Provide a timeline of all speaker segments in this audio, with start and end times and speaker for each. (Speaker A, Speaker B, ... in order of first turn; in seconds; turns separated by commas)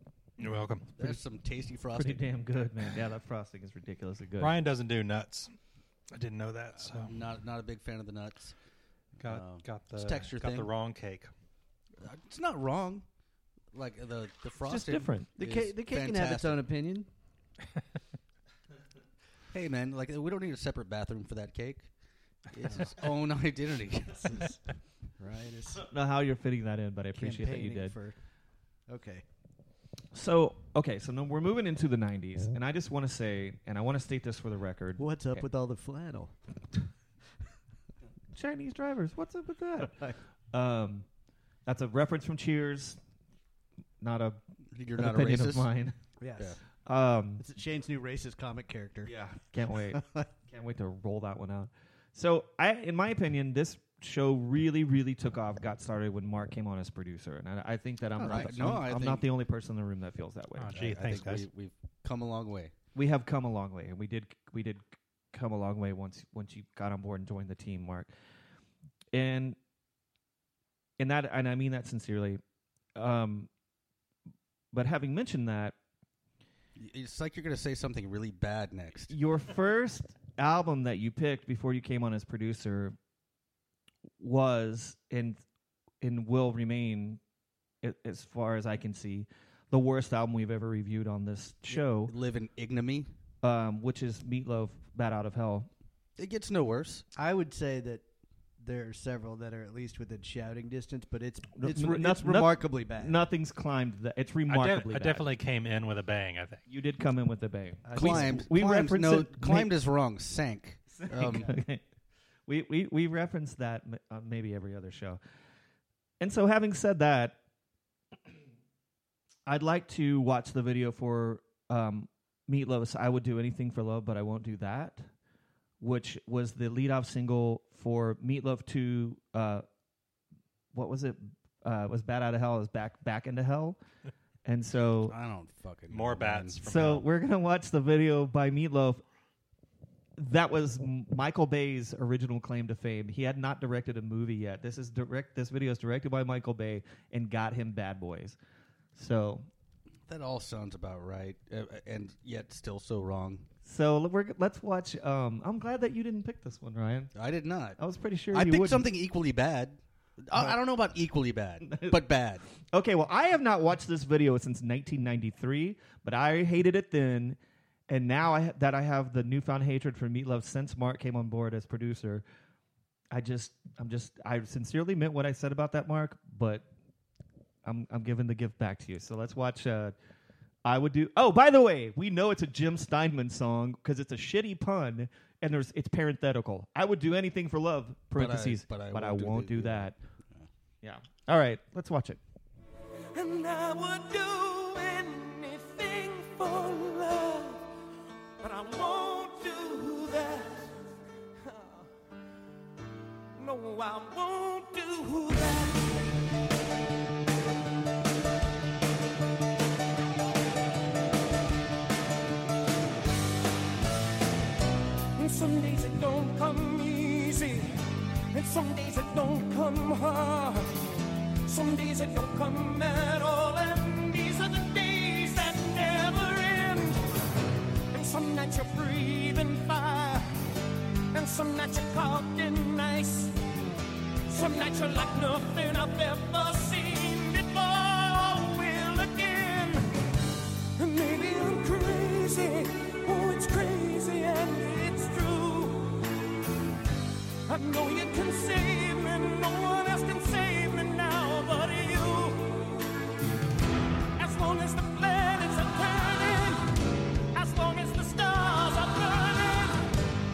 Speaker A: 0.4-0.9, Speaker B: 1.0-2.2, Speaker C: 1.9-4.5, Speaker A: 4.4-5.5, Speaker A: 6.1-7.2, Speaker B: 6.8-8.5, Speaker A: 9.2-11.3, Speaker B: 9.2-10.7, Speaker B: 12.0-13.0, Speaker B: 13.7-16.6, Speaker C: 14.6-15.3, Speaker D: 15.4-17.1, Speaker B: 19.5-21.9, Speaker B: 22.5-24.4, Speaker D: 24.1-24.6, Speaker D: 25.2-25.9, Speaker C: 25.9-27.9, Speaker D: 27.1-28.2, Speaker D: 28.9-29.2, Speaker C: 30.1-35.4, Speaker D: 35.0-36.4, Speaker C: 38.3-41.1, Speaker C: 41.7-43.0, Speaker C: 44.0-44.4, Speaker B: 44.7-45.7, Speaker C: 45.0-46.0, Speaker D: 46.2-46.6, Speaker C: 46.9-47.4, Speaker D: 47.4-49.1, Speaker C: 49.0-60.8, Speaker D: 49.9-50.3, Speaker D: 58.2-58.5, Speaker B: 58.2-59.3, Speaker A: 60.6-61.5, Speaker B: 60.7-62.7, Speaker C: 63.0-68.1, Speaker C: 69.1-69.6, Speaker C: 71.0-72.4, Speaker C: 73.0-73.5, Speaker C: 74.7-75.8, Speaker B: 76.8-79.1, Speaker C: 79.1-83.0, Speaker C: 84.2-85.4, Speaker C: 86.0-87.2, Speaker C: 87.8-92.1, Speaker B: 91.7-93.1, Speaker C: 93.4-95.7, Speaker B: 96.2-97.0, Speaker D: 97.2-98.0, Speaker D: 98.6-103.2, Speaker C: 101.5-105.3, Speaker A: 104.5-106.6, Speaker C: 106.7-109.7, Speaker D: 107.8-108.5, Speaker B: 107.9-111.5, Speaker C: 111.0-111.8, Speaker C: 112.5-115.2, Speaker C: 116.2-117.4, Speaker C: 119.5-125.1, Speaker C: 125.8-129.7, Speaker C: 130.7-133.8, Speaker C: 134.4-135.2, Speaker B: 135.1-136.6, Speaker A: 135.9-137.0, Speaker C: 136.6-139.0, Speaker C: 140.2-148.4, Speaker C: 148.9-149.5, Speaker B: 150.1-153.5, Speaker C: 153.6-157.1, Speaker B: 157.2-157.8, Speaker C: 157.8-158.9, Speaker B: 158.3-162.4, Speaker C: 161.7-161.9, Speaker C: 162.7-167.4, Speaker C: 167.9-172.2, Speaker C: 173.1-176.7, Speaker C: 177.7-179.9, Speaker C: 180.7-190.0, Speaker B: 188.1-190.5, Speaker C: 190.8-192.2, Speaker E: 193.1-197.7, Speaker E: 198.4-200.7, Speaker E: 201.4-201.9, Speaker E: 203.4-206.0, Speaker E: 215.2-217.8, Speaker E: 218.3-227.0, Speaker E: 227.9-230.3, Speaker E: 231.1-233.4, Speaker E: 234.3-239.9, Speaker E: 240.8-246.0, Speaker E: 247.5-252.8, Speaker E: 254.2-256.7, Speaker E: 257.3-259.9